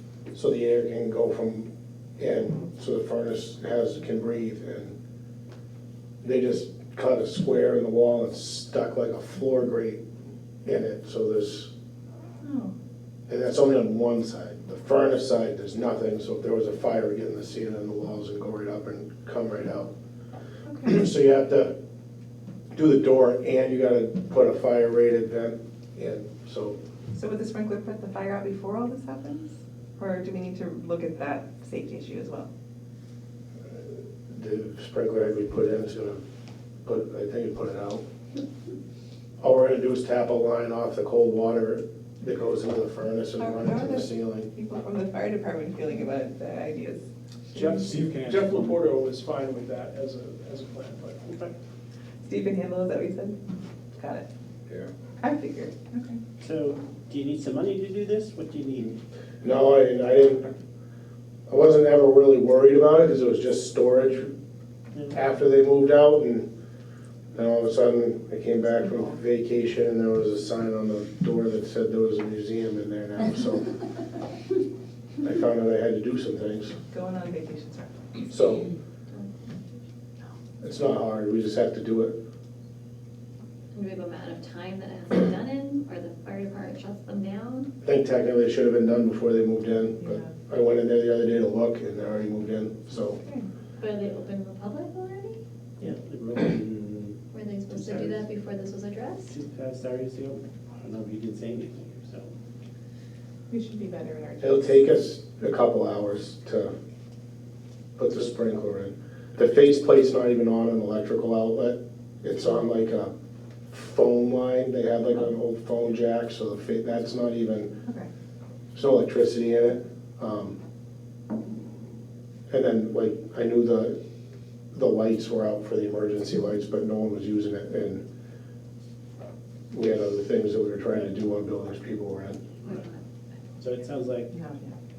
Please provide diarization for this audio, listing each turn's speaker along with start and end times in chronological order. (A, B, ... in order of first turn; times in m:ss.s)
0:00.3-0:05.0 A
0:06.2-0:10.0 A
0:10.6-0:11.7 A
0:12.4-0:12.7 B
0:13.3-0:19.9 A
0:20.7-0:21.0 B
0:20.8-0:21.8 A
0:22.7-0:26.8 A
0:27.1-0:32.5 B
0:34.3-0:36.2 A
0:36.8-0:38.0 A
0:39.4-0:44.5 A
0:43.4-0:47.8 B
0:47.6-0:48.8 C
0:47.6-0:51.5 D
0:51.3-0:51.5 C
0:52.2-0:53.4 B
0:54.0-0:54.3 B
0:55.2-0:56.2 B
0:56.4-0:59.0 C
0:59.4-1:00.5 A
1:01.5-1:04.3 A
1:05.1-1:06.5 A
1:07.4-1:13.8 A
1:08.6-1:09.2 B
1:15.2-1:16.8 A
1:16.9-1:18.4 B
1:18.2-1:18.7 A
1:20.6-1:22.2 A
1:23.7-1:27.7 E
1:27.8-1:33.2 A
1:30.0-1:30.3 B
1:33.1-1:33.5 B
1:33.8-1:35.4 E
1:35.8-1:37.2 C
1:37.3-1:39.4 E
1:39.3-1:42.3 C
1:43.5-1:44.8 B
1:44.4-1:46.7 A
1:48.0-1:53.1 A
1:53.7-1:57.7 A
1:58.7-2:00.6 A
2:02.5-2:04.0 A
2:04.7-2:08.0 A
2:09.7-2:12.4 A
2:12.6-2:13.0 E
2:13.6-2:14.3 C
2:14.3-2:14.8 B